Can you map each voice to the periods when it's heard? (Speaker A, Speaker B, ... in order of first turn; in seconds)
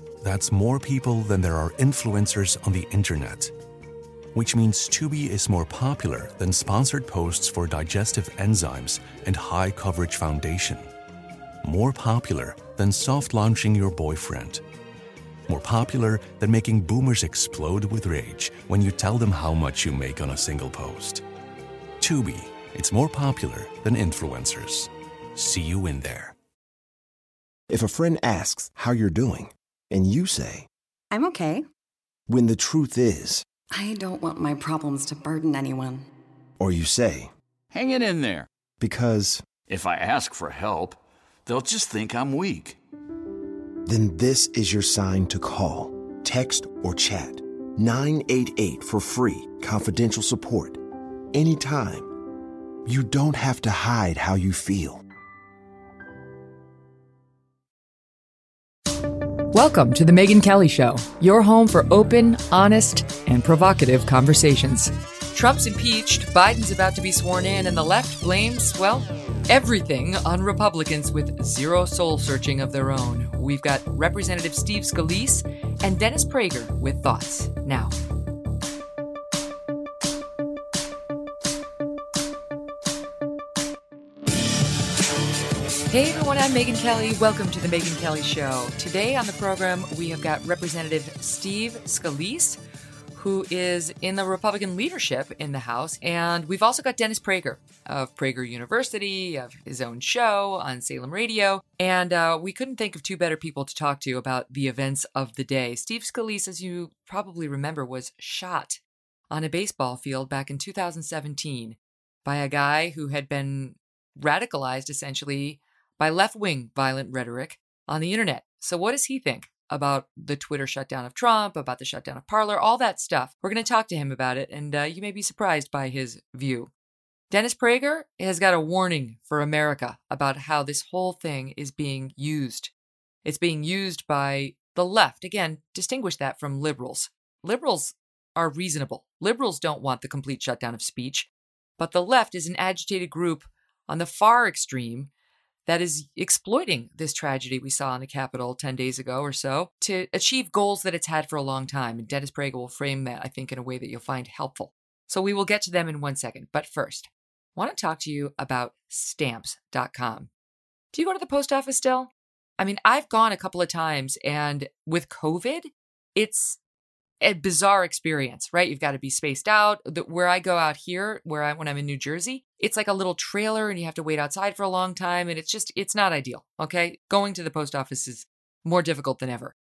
Speaker A: 0.2-3.5, 4.3-10.9, 11.6-14.6, 15.5-21.2, 22.0-26.3
Speaker B: 27.7-30.7, 32.3-33.4, 36.6-37.3, 38.8-39.4, 43.9-50.8, 51.3-52.1, 52.8-55.0
Speaker C: 31.1-31.6, 33.7-36.1
Speaker D: 37.7-38.5, 39.7-42.8
Speaker E: 59.5-77.9, 85.9-92.6, 93.1-126.7, 127.3-132.7, 133.2-145.1, 145.7-160.3, 160.9-166.6, 167.2-179.5